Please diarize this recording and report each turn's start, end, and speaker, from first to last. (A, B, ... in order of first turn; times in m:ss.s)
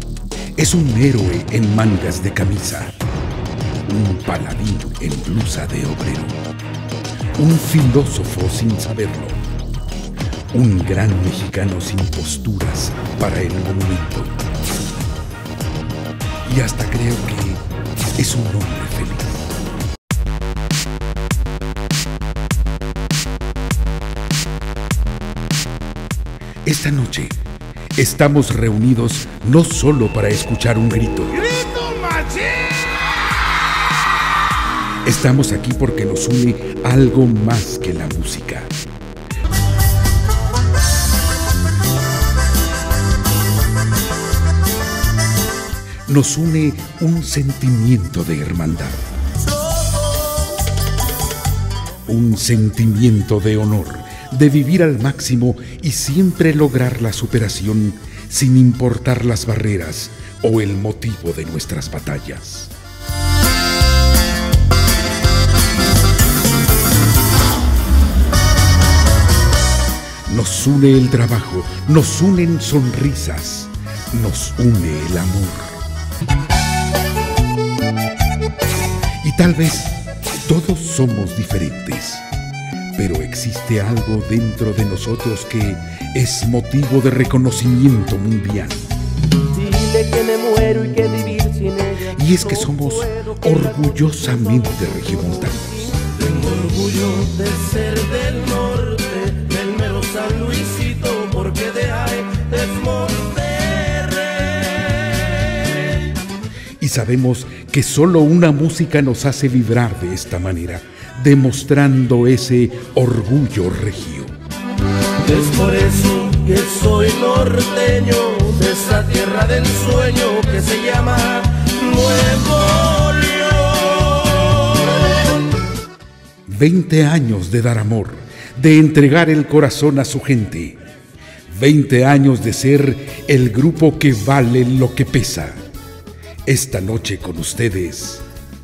0:00.6-0:03.0 A
0:03.8-0:06.4 A
0:07.4-0:09.4 A
0:10.5-0:14.3 A
0:16.4-0:17.6 A
0:18.2-0:19.4 A
0:26.6-0:27.4 A
0:28.0-0:31.5 A
0:31.5-0:33.0 B
0:35.0-0:38.7 A
0:46.1-0:49.1 A
0:52.0-1:02.7 A
1:10.2-1:15.8 A
1:19.2-1:22.2 A
1:22.9-1:28.9 A
1:29.5-1:34.2 B
1:32.1-1:36.0 A
1:36.0-1:46.2 B
1:46.8-1:54.3 A
1:55.2-2:05.3 B
2:06.4-2:10.8 A
2:11.5-2:15.6 A
2:16.4-2:18.2 A